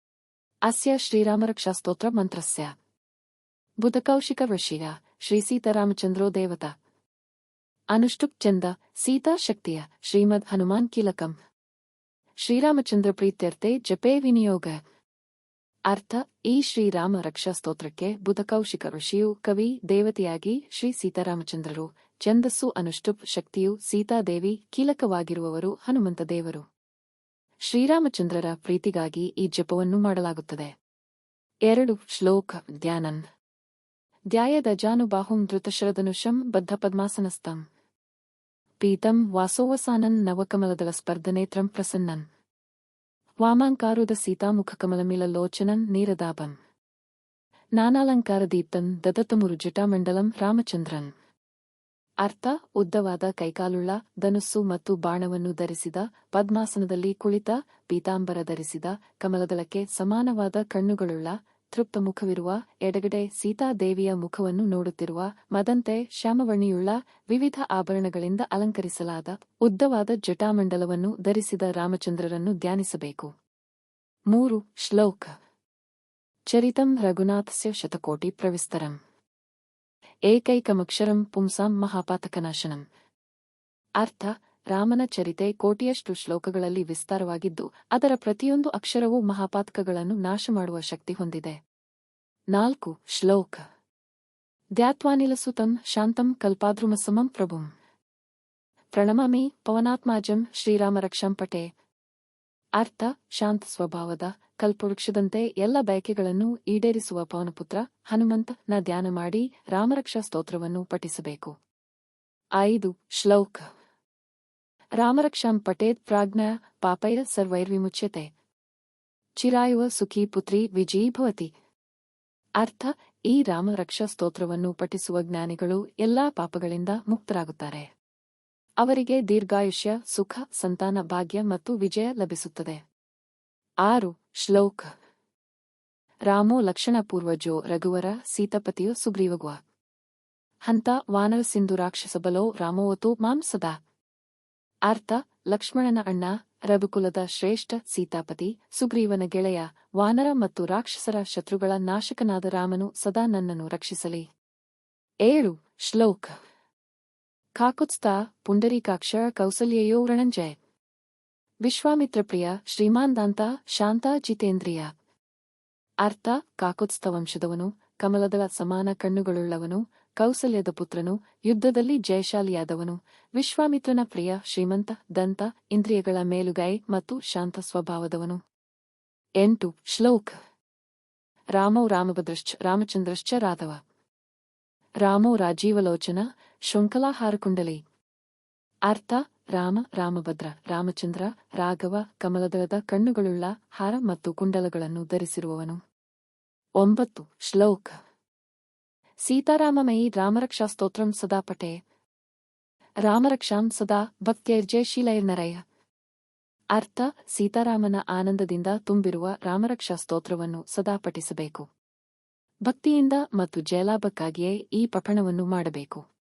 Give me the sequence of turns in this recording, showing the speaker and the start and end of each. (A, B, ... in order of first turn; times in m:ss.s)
0:00.6-0:02.7 A
0:03.8-0:06.7 A
0:07.9-0:11.4 A
0:12.4-0:14.8 A
0:15.9-0:26.6 A
0:27.7-0:30.7 A
0:31.7-0:33.2 A
0:34.3-0:37.6 A
0:38.8-0:42.2 A
0:43.4-0:46.5 A
0:47.8-0:51.1 A
0:52.2-1:13.3 A
1:14.3-1:15.3 A
1:16.5-1:19.0 A
1:20.3-1:22.8 A
1:24.0-1:31.6 A
1:32.5-1:33.6 A
1:34.8-1:37.7 A
1:38.9-1:41.7 A
1:42.8-1:51.5 A
1:52.6-1:53.6 A
1:55.0-1:58.3 A
1:59.4-2:01.5 A
2:02.6-2:07.9 A
2:08.8-2:12.8 A
2:13.8-2:14.9 A
2:16.3-2:19.6 A
2:20.7-2:23.8 A
2:24.9-2:34.2 A
2:35.2-2:36.4 A
2:37.6-2:40.6 A
2:41.6-2:44.9 A
2:46.0-2:58.4 A
2:59.4-3:00.3 A
3:01.5-3:03.8 A
3:05.0-3:07.8 A
3:08.9-3:15.8 A
3:16.8-3:18.0 A
3:19.2-3:21.8 A
3:23.0-3:25.6 A
3:26.7-3:31.6 A
3:32.6-3:36.0 A